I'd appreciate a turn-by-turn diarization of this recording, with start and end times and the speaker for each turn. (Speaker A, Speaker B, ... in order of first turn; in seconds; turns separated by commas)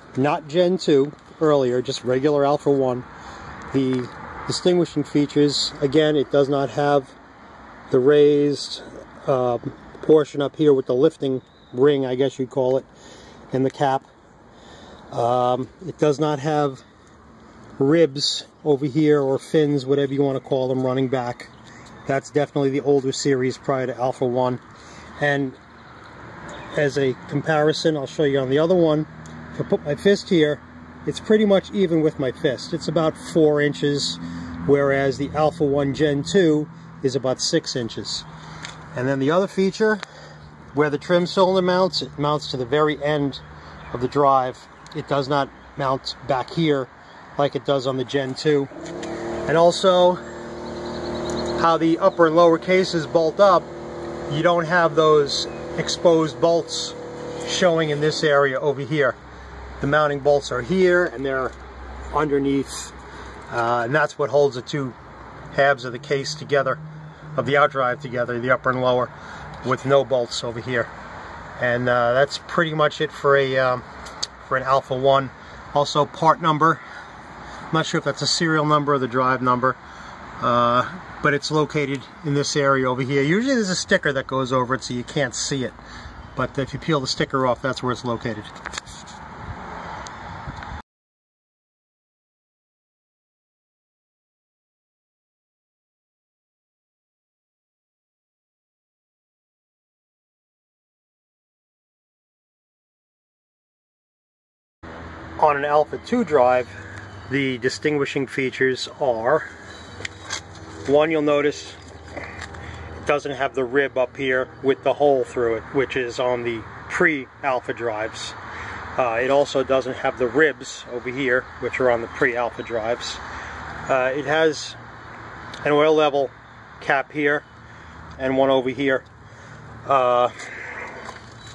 Speaker A: 0.1-3.0, Speaker A: 3.7-7.1, Speaker A: 7.9-12.9, Speaker A: 13.5-14.1, Speaker A: 15.1-16.8, Speaker A: 17.8-21.5, Speaker A: 22.1-24.6, Speaker A: 25.2-25.6, Speaker A: 26.7-38.2, Speaker A: 38.9-40.0, Speaker A: 40.7-48.7, Speaker A: 49.5-50.2, Speaker A: 51.5-53.7, Speaker A: 54.3-59.2, Speaker A: 59.8-61.5, Speaker A: 62.1-62.9, Speaker A: 63.5-65.0, Speaker A: 65.5-66.8, Speaker A: 67.3-69.1, Speaker A: 69.6-70.9, Speaker A: 71.6-73.8, Speaker A: 74.4-76.8, Speaker A: 77.7-79.8, Speaker A: 80.4-85.8, Speaker A: 86.3-88.5, Speaker A: 105.4-106.8, Speaker A: 107.3-109.5, Speaker A: 110.8-111.8, Speaker A: 113.0-118.3, Speaker A: 119.0-123.2, Speaker A: 123.8-124.8, Speaker A: 125.6-127.5, Speaker A: 128.2-129.1, Speaker A: 129.8-130.5